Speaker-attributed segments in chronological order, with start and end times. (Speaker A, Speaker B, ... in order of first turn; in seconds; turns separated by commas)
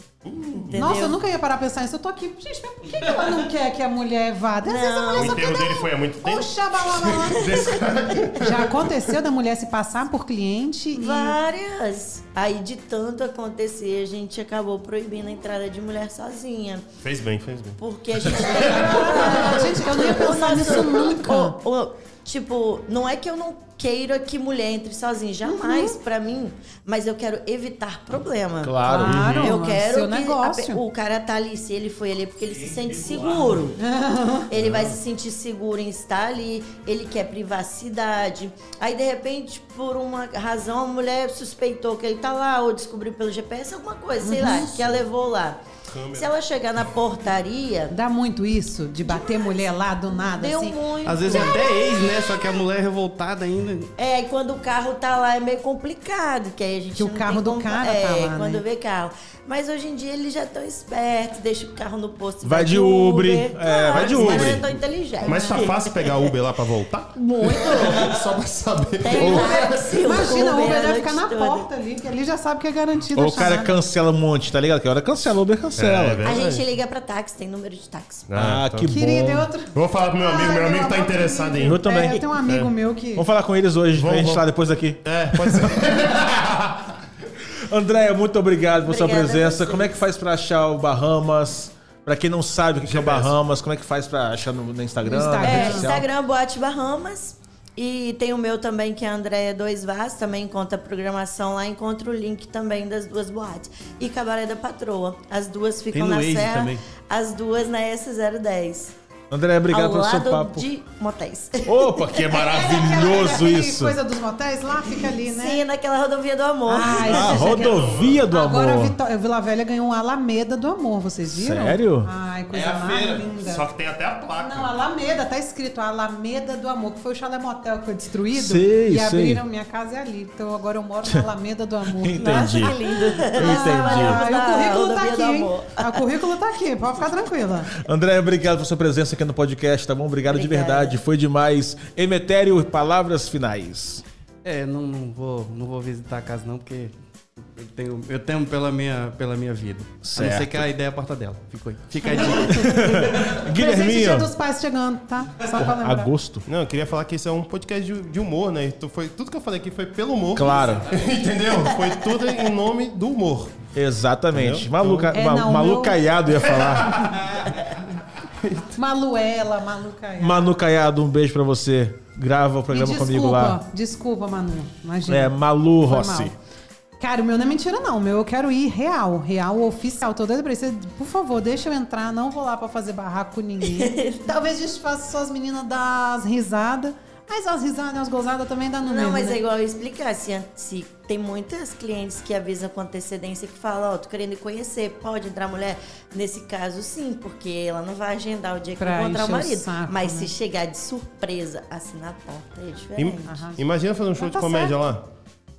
Speaker A: 0.2-0.8, Speaker B: 0.6-1.2, Speaker C: 0.8-11.4, Speaker B: 4.6-5.5, Speaker A: 5.1-8.9, Speaker B: 10.9-16.9, Speaker A: 17.0-17.8, Speaker B: 17.8-33.8, Speaker C: 18.3-21.6, Speaker A: 18.4-19.5, Speaker C: 25.5-25.9, Speaker D: 28.6-29.5, Speaker C: 28.9-30.8, Speaker C: 33.8-34.5, Speaker B: 34.5-48.0, Speaker C: 44.2-44.8, Speaker A: 45.9-46.4, Speaker C: 47.9-51.5, Speaker B: 50.2-52.1, Speaker E: 51.0-53.9, Speaker B: 54.0-66.2, Speaker C: 57.0-58.6, Speaker D: 62.4-64.6, Speaker A: 64.0-64.6, Speaker C: 65.2-65.6, Speaker A: 65.2-70.1, Speaker B: 67.2-68.2, Speaker B: 69.0-71.7, Speaker C: 70.0-73.8, Speaker D: 73.1-76.3, Speaker A: 75.8-76.7, Speaker B: 76.2-78.3, Speaker A: 78.3-79.0, Speaker D: 78.4-79.5, Speaker C: 78.8-83.3, Speaker A: 79.7-82.7, Speaker D: 81.6-82.2, Speaker D: 83.2-85.8, Speaker A: 84.0-84.4, Speaker A: 85.0-86.9, Speaker D: 87.6-96.1, Speaker B: 88.8-90.0, Speaker A: 92.9-93.3, Speaker C: 95.0-95.9, Speaker B: 95.4-108.9, Speaker E: 105.9-106.8, Speaker D: 109.3-110.7, Speaker B: 109.7-112.3, Speaker D: 111.7-114.0, Speaker C: 112.3-115.6, Speaker B: 115.2-117.6, Speaker C: 116.7-123.7, Speaker D: 117.0-119.0, Speaker A: 117.4-118.2, Speaker D: 121.3-122.1, Speaker E: 122.5-123.3, Speaker A: 123.4-124.7, Speaker C: 124.4-137.8, Speaker D: 128.3-129.4, Speaker D: 131.9-132.8, Speaker B: 132.2-136.0, Speaker D: 133.3-134.2, Speaker D: 137.8-144.0, Speaker B: 140.3-141.0, Speaker E: 144.4-152.9, Speaker D: 150.0-150.7, Speaker C: 152.1-156.1, Speaker D: 152.4-154.3, Speaker D: 155.5-156.4, Speaker A: 156.5-163.6, Speaker D: 160.3-160.9, Speaker D: 163.7-167.3, Speaker A: 164.3-165.1, Speaker C: 165.1-166.0, Speaker A: 166.7-167.2, Speaker C: 168.7-170.5, Speaker D: 170.2-173.6, Speaker C: 172.7-176.3, Speaker D: 175.1-176.3, Speaker C: 177.0-189.4, Speaker B: 183.6-184.3, Speaker B: 188.8-203.4, Speaker C: 198.8-200.3, Speaker A: 203.0-205.0, Speaker C: 203.3-203.6, Speaker C: 204.2-204.8